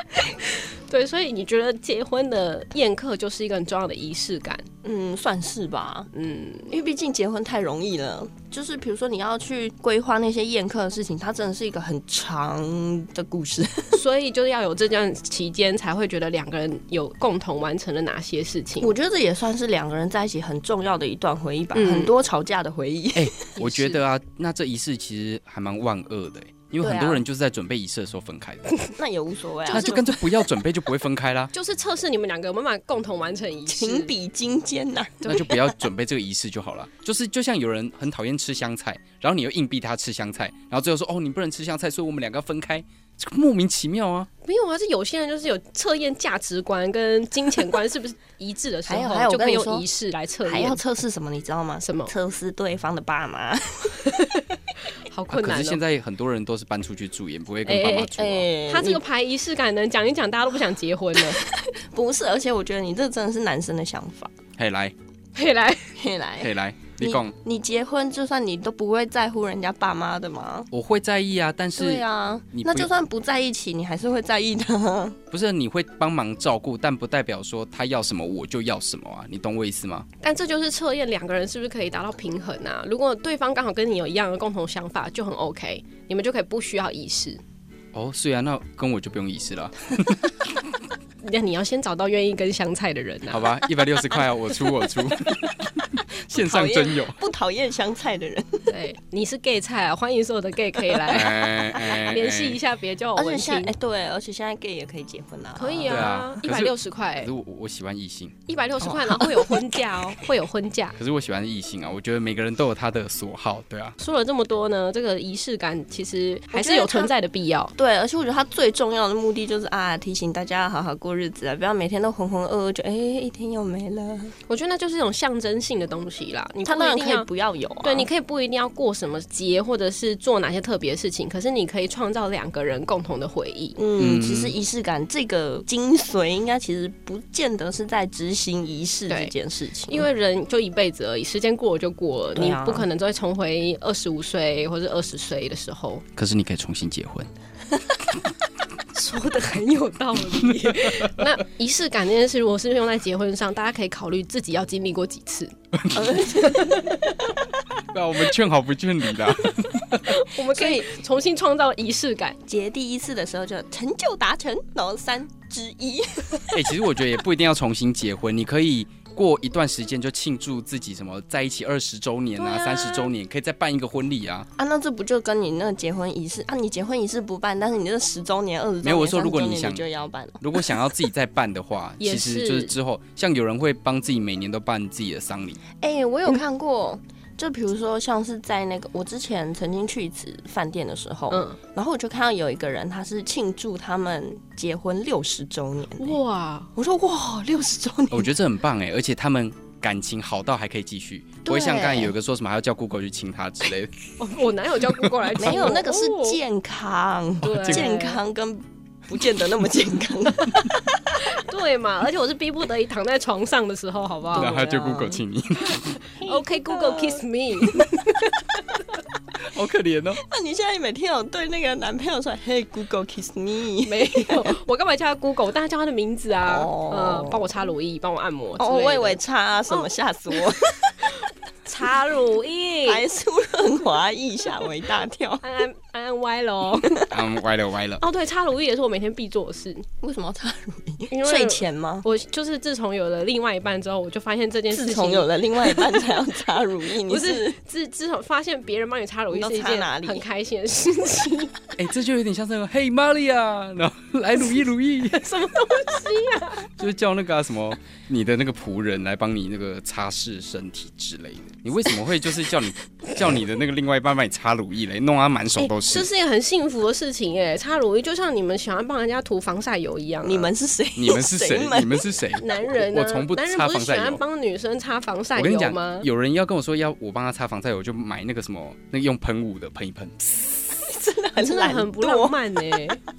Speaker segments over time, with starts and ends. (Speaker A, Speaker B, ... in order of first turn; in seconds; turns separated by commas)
Speaker A: 0.2-4.7, Speaker B: 4.8-6.1, Speaker A: 6.1-6.7, Speaker B: 6.7-14.0, Speaker A: 13.9-18.9, Speaker B: 18.8-23.4, Speaker A: 21.7-22.1, Speaker C: 23.1-28.8, Speaker A: 23.6-24.0, Speaker B: 26.8-27.2, Speaker B: 29.0-30.2, Speaker A: 29.7-30.1, Speaker C: 29.7-31.5, Speaker A: 31.5-34.1, Speaker B: 33.7-35.6, Speaker C: 35.2-44.3, Speaker A: 44.5-50.8, Speaker B: 48.9-49.9, Speaker B: 50.5-54.3, Speaker A: 51.8-52.1, Speaker A: 55.0-55.8, Speaker C: 55.3-58.5, Speaker A: 57.6-61.4, Speaker B: 58.1-59.0, Speaker B: 61.2-64.3, Speaker C: 64.6-64.9, Speaker A: 65.3-66.0, Speaker B: 66.0-70.7, Speaker C: 66.4-67.3, Speaker C: 70.7-72.9, Speaker B: 71.8-75.2, Speaker C: 75.3-80.1, Speaker A: 80.2-87.4, Speaker C: 87.9-90.6, Speaker A: 91.2-93.6, Speaker C: 93.3-97.2, Speaker B: 96.3-98.7, Speaker A: 98.7-103.7, Speaker C: 101.1-102.6, Speaker B: 103.2-106.2, Speaker A: 105.6-107.3, Speaker C: 105.8-108.3, Speaker A: 108.5-111.0, Speaker B: 108.8-109.7, Speaker C: 111.0-114.0, Speaker A: 114.0-117.7, Speaker B: 116.5-117.1, Speaker B: 117.8-124.3, Speaker A: 124.5-127.3, Speaker B: 126.7-128.1, Speaker A: 127.8-133.8, Speaker B: 133.8-140.1, Speaker C: 134.0-134.5, Speaker A: 139.9-146.0, Speaker B: 142.3-142.9, Speaker C: 146.2-147.3, Speaker A: 148.9-155.5, Speaker C: 150.8-151.1, Speaker C: 155.8-156.1, Speaker B: 155.9-157.3, Speaker A: 156.4-157.1, Speaker C: 157.9-160.1, Speaker A: 160.0-162.4, Speaker B: 160.5-160.9, Speaker B: 162.5-166.6, Speaker C: 166.5-174.5, Speaker A: 172.4-173.1, Speaker B: 174.6-180.7, Speaker C: 178.8-179.8, Speaker C: 180.4-185.6, Speaker A: 182.0-182.7, Speaker B: 185.8-196.2, Speaker A: 191.3-191.6, Speaker A: 196.0-196.7, Speaker B: 196.8-198.3, Speaker C: 198.1-204.0, Speaker B: 201.4-202.1, Speaker A: 204.2-206.4, Speaker C: 205.0-205.3, Speaker B: 205.4-211.1, Speaker A: 207.4-208.2, Speaker C: 207.4-207.9, Speaker A: 211.2-214.8, Speaker C: 214.3-216.0, Speaker B: 214.3-215.2, Speaker A: 216.1-218.3, Speaker B: 216.2-217.2, Speaker C: 219.4-220.2, Speaker B: 220.2-224.5, Speaker A: 223.9-229.2, Speaker B: 226.4-227.5, Speaker B: 228.6-231.1, Speaker A: 229.7-230.4, Speaker A: 231.7-233.1, Speaker B: 232.8-235.4, Speaker A: 235.4-237.1, Speaker C: 237.1-238.0, Speaker A: 238.0-239.9, Speaker B: 240.0-242.1, Speaker A: 241.1-246.2, Speaker B: 244.7-247.6, Speaker A: 247.1-251.5, Speaker B: 249.3-250.2, Speaker C: 251.8-255.3, Speaker A: 255.1-256.7, Speaker C: 256.8-266.1, Speaker A: 265.6-270.5, Speaker B: 270.2-272.1, Speaker C: 271.0-274.2, Speaker A: 272.4-276.1, Speaker C: 275.4-280.6, Speaker B: 280.8-283.0, Speaker A: 281.4-283.0